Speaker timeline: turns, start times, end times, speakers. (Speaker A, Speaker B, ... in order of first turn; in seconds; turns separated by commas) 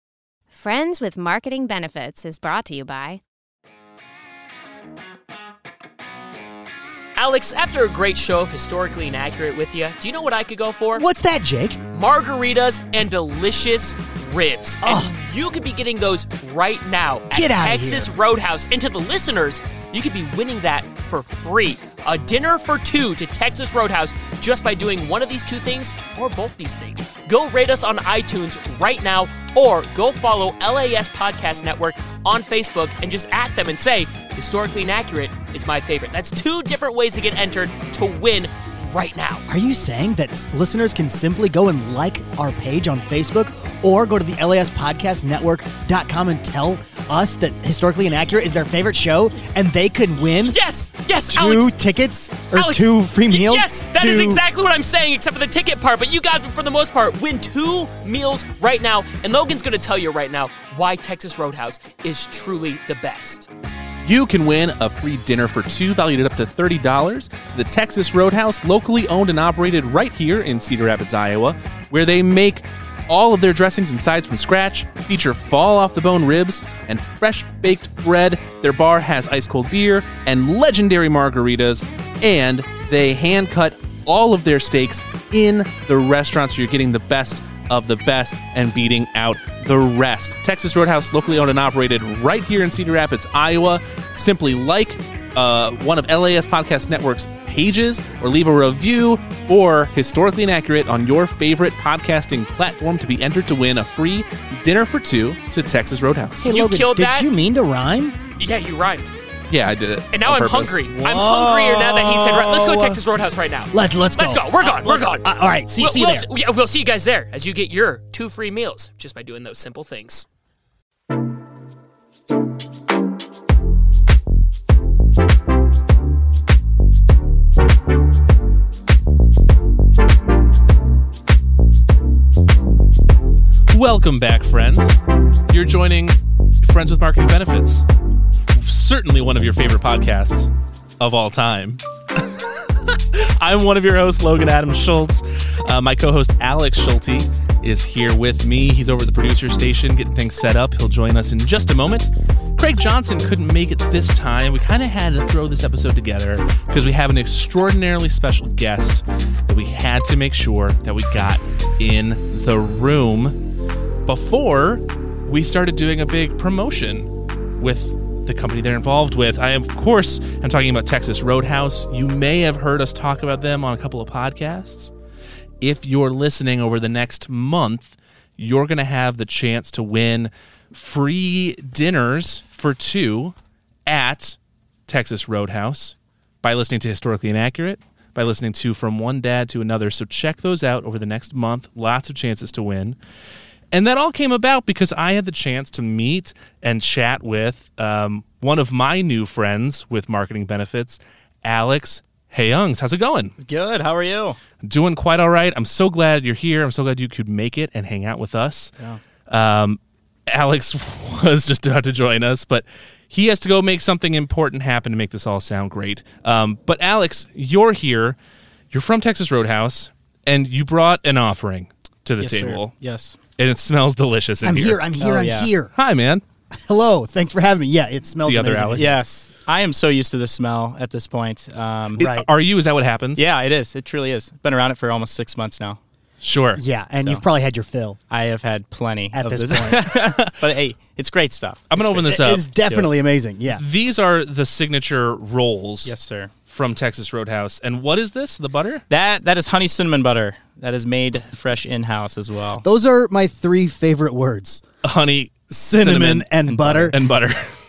Speaker A: 0.5-3.2, Speaker B: 7.2-11.0, Speaker C: 10.9-11.8, Speaker B: 11.9-39.4, Speaker C: 14.8-15.1, Speaker C: 17.3-18.1, Speaker C: 39.5-50.6, Speaker B: 50.4-51.7, Speaker C: 51.3-54.4, Speaker B: 52.5-63.5, Speaker D: 64.0-106.5, Speaker C: 106.4-108.2, Speaker B: 106.4-107.3, Speaker B: 108.4-109.1, Speaker D: 109.5-110.9, Speaker B: 110.1-120.2, Speaker C: 111.0-113.0, Speaker C: 113.7-116.3, Speaker D: 133.7-135.0, Speaker D: 135.5-137.8, Speaker D: 138.5-163.4, Speaker D: 164.1-174.9, Speaker D: 175.6-184.3, Speaker D: 184.9-193.0, Speaker D: 193.7-203.3, Speaker E: 203.4-204.4, Speaker D: 204.6-208.7, Speaker D: 209.3-218.2, Speaker D: 218.7-222.7, Speaker E: 222.2-223.2, Speaker D: 223.4-224.8, Speaker C: 224.4-225.7, Speaker E: 225.0-225.5, Speaker D: 225.8-226.2, Speaker C: 226.5-228.9, Speaker D: 228.2-228.9, Speaker E: 228.7-232.0, Speaker D: 232.0-233.2, Speaker C: 232.0-232.3, Speaker E: 233.2-235.8, Speaker D: 236.2-236.6, Speaker C: 236.5-238.0, Speaker E: 238.1-242.9, Speaker C: 239.1-239.9, Speaker D: 239.6-240.5, Speaker D: 241.7-242.4, Speaker C: 242.0-243.6, Speaker D: 243.5-245.9, Speaker E: 245.8-246.3, Speaker D: 246.5-248.8, Speaker E: 248.9-252.6, Speaker C: 252.6-254.6, Speaker D: 254.8-256.3, Speaker C: 255.5-257.0, Speaker E: 256.3-256.9, Speaker D: 256.9-257.5